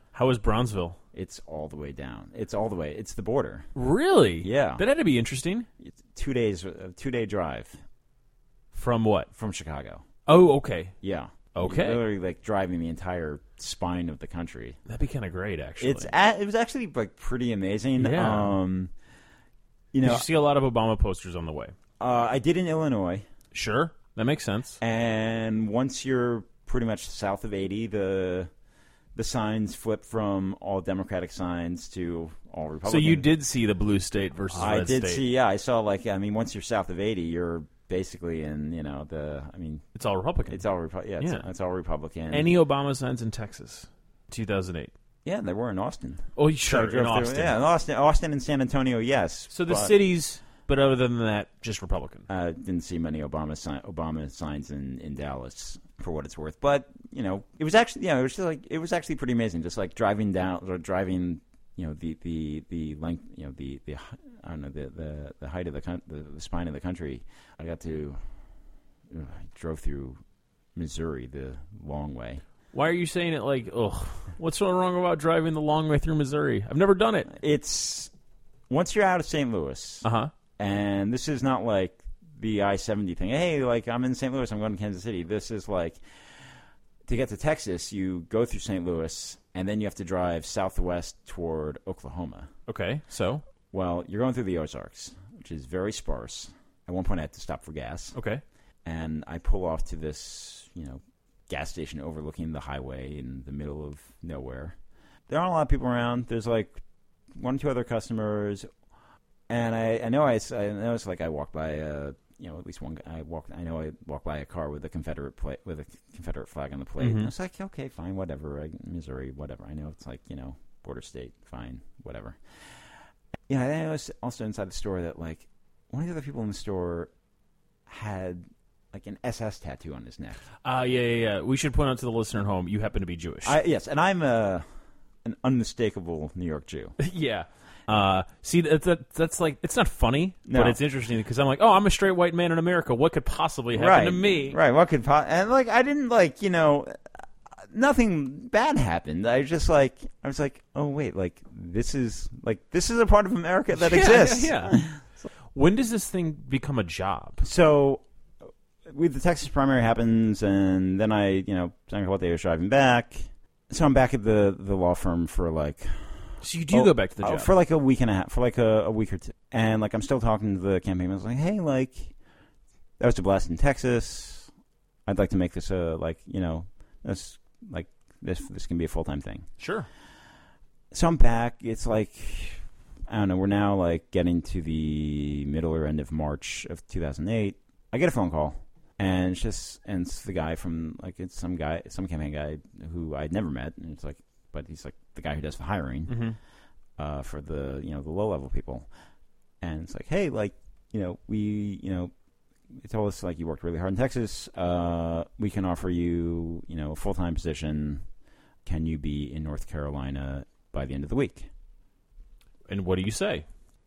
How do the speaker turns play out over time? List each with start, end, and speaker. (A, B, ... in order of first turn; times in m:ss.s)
0:00.1-0:01.0 A
0:01.1-0:03.7 B
0:03.7-0:05.7 A
0:04.4-0:04.8 B
0:05.8-0:07.8 B
0:08.7-0:09.3 A
0:09.3-0:10.0 B
0:10.3-0:10.9 A
0:11.0-0:14.8 B
0:11.5-0:12.0 A
0:14.9-0:16.1 A
0:15.8-0:18.9 B
0:18.0-0:18.6 A
0:19.9-0:20.3 B
0:20.0-0:21.7 A
0:22.0-0:23.2 B
0:23.5-0:24.8 A
0:24.8-0:28.5 B
0:29.1-0:33.3 B
0:32.8-0:35.2 A
0:34.5-0:39.8 B
0:39.9-0:40.6 A
0:40.5-0:42.5 B
0:41.2-0:41.4 A
0:42.3-0:44.9 A
0:45.2-0:49.9 B
0:46.4-0:47.6 A
0:49.5-0:52.3 A
0:52.3-1:08.2 B
1:09.1-1:10.2 B
1:10.7-1:12.4 B
1:12.7-1:17.3 A
1:17.3-1:18.1 B
1:18.7-1:20.0 B
1:20.0-1:20.3 A
1:20.6-1:26.0 B
1:27.0-1:32.5 B
1:32.7-1:33.4 A
1:33.7-1:38.1 B
1:38.1-1:38.4 A
1:38.8-1:44.8 B
1:45.3-1:46.8 B
1:47.3-1:48.7 B
1:49.5-2:02.4 B
1:57.0-1:57.3 A
2:03.5-2:07.1 B
2:07.9-2:10.4 B
2:10.6-2:13.6 A
2:13.4-2:14.6 B
2:15.2-2:16.9 B
2:17.0-2:24.6 A
2:20.5-2:20.8 B
2:23.7-2:27.1 B
2:27.7-2:35.0 B
2:33.7-2:34.8 A
2:35.5-2:37.4 A
2:37.4-2:38.0 B
2:38.8-2:46.1 B
2:46.4-2:47.5 A
2:46.7-2:52.1 B
2:53.0-2:54.5 B
2:55.0-2:59.5 B
2:59.6-2:59.9 A
3:00.9-3:16.2 B
3:16.1-3:16.4 A
3:17.0-3:18.9 B
3:19.6-3:22.1 B
3:22.7-3:28.0 B
3:28.6-3:31.5 B
3:32.7-3:33.4 A